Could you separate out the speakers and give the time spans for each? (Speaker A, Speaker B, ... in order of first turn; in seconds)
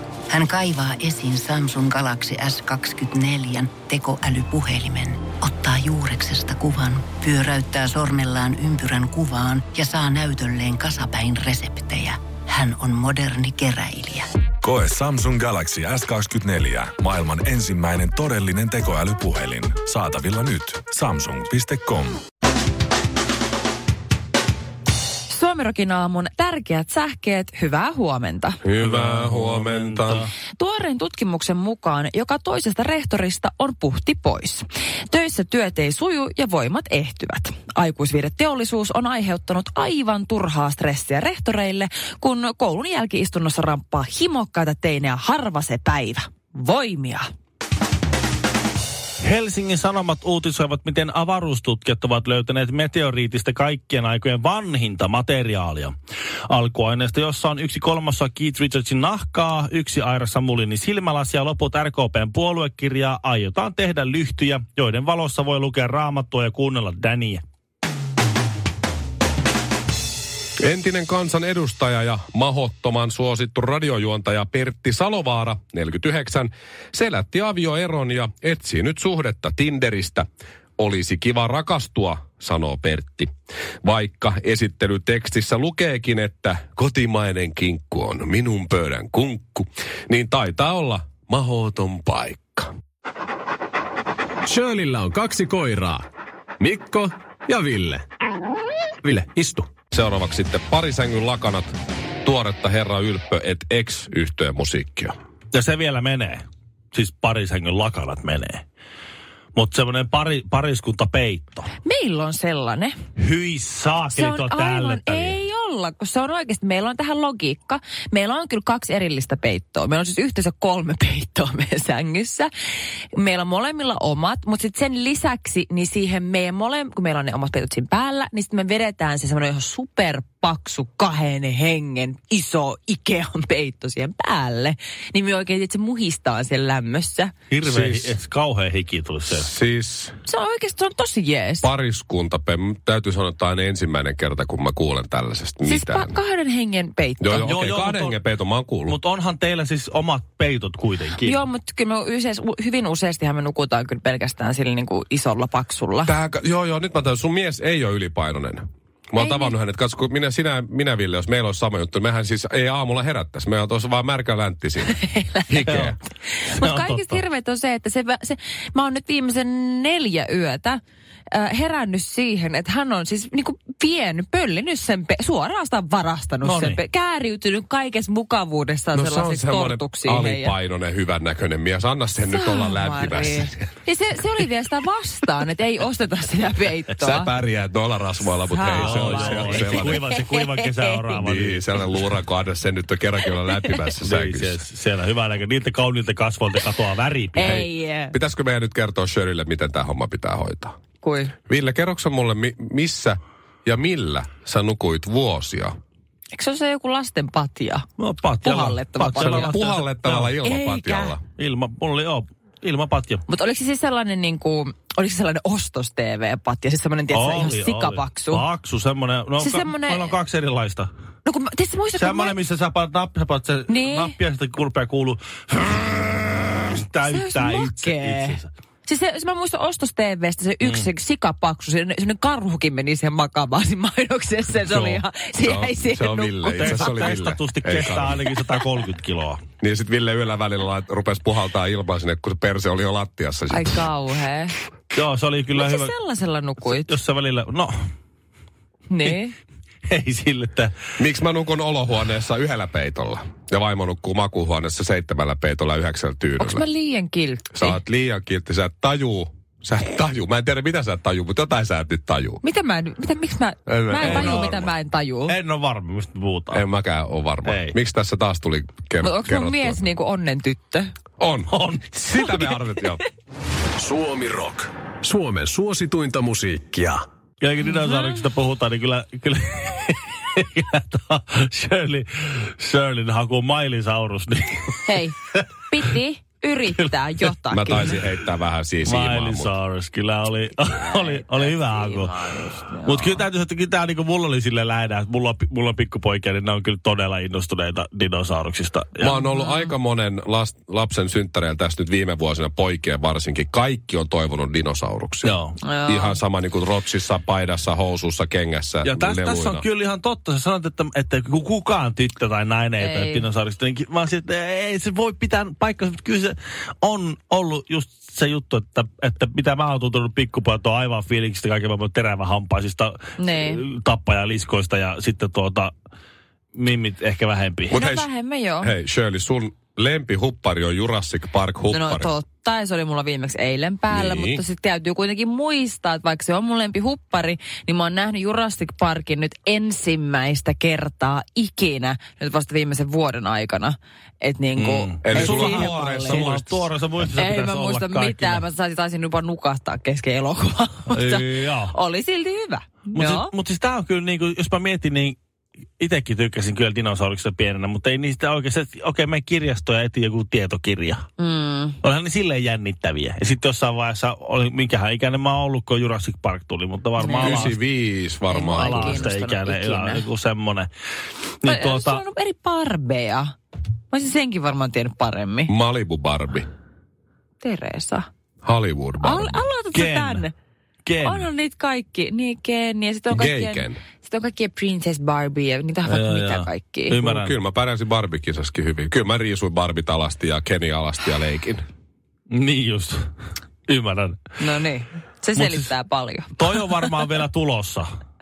Speaker A: 0.3-14.3
Speaker B: 14.6-22.2
Speaker C: 25.3-28.6, 30.6-47.3, 111.8-113.0, 114.1-122.5, 123.1-137.3, 140.2-141.7, 145.7-147.5, 151.2-156.1, 159.2-159.6, 164.9-165.8, 166.5-180.6, 182.3-187.3, 188.5-190.7, 197.4-198.2, 201.0-201.3, 206.3-207.8, 208.4-209.6, 210.4-211.2, 213.3-218.4, 219.4-220.1, 221.2-222.4, 223.7-224.1, 227.0-237.2, 243.5-244.6, 245.6-246.9, 248.9-249.3, 256.4-257.8, 262.4-265.4, 269.0-270.9, 284.9-285.1, 285.7-287.9, 290.9-293.1, 305.6-306.2, 312.8-313.3, 323.2-323.6, 327.7-328.7, 331.7-346.3, 347.1-353.3, 361.2-361.8, 367.0-367.5, 368.3-370.1, 371.4-373.3, 373.9-375.5, 377.4-378.1, 379.0-380.3, 381.0-387.0, 394.4-396.4
Speaker D: 28.6-30.3, 70.6-80.2, 80.8-83.3, 83.8-92.7, 99.9-105.1, 137.6-138.2, 139.3-140.2, 141.6-146.2, 147.2-149.0, 156.1-166.0, 178.9-183.7, 187.0-190.0, 191.1-194.6, 197.4-200.8, 201.5-205.7, 209.2-211.2, 235.4-238.2, 239.6-243.9, 251.0-256.7, 257.5-262.4, 263.7-264.7, 266.5-269.8, 271.2-271.5, 272.1-273.0, 287.5-289.5, 299.0-309.6, 327.7-328.1, 328.6-332.1, 333.9-334.4, 345.0-346.6, 367.2-369.1, 375.5-376.5, 378.4-379.5, 383.1-383.8, 387.0-391.6
Speaker E: 28.8-30.3, 49.2-56.0, 56.5-67.4, 105.5-108.6, 109.5-111.7, 113.2-115.4, 137.5-139.5, 147.4-148.2, 148.9-151.4, 165.7-165.9, 166.5-167.2, 176.4-176.8, 188.8-192.0, 194.0-197.7, 208.0-210.4, 211.4-213.2, 217.1-220.9, 221.9-228.5, 230.6-230.9, 234.7-235.0, 236.6-239.4, 244.9-245.9, 246.6-247.8, 249.9-250.7, 264.0-264.6, 265.3-266.6, 267.5-267.8, 271.5-272.5, 277.4-285.4, 286.7-287.3, 288.8-292.2, 292.8-299.3, 305.2-305.6, 308.8-325.7, 326.6-327.8, 344.6-348.5, 350.9-351.7, 352.9-355.2, 355.8-361.1, 361.8-367.6, 368.6-370.7, 371.4-372.0, 379.7-380.3, 380.9-381.3, 385.9-387.4, 392.3-393.1, 393.7-394.6, 395.4-395.7, 396.4-397.9
Speaker F: 94.5-96.0, 96.6-98.0, 99.0-99.7, 273.8-277.0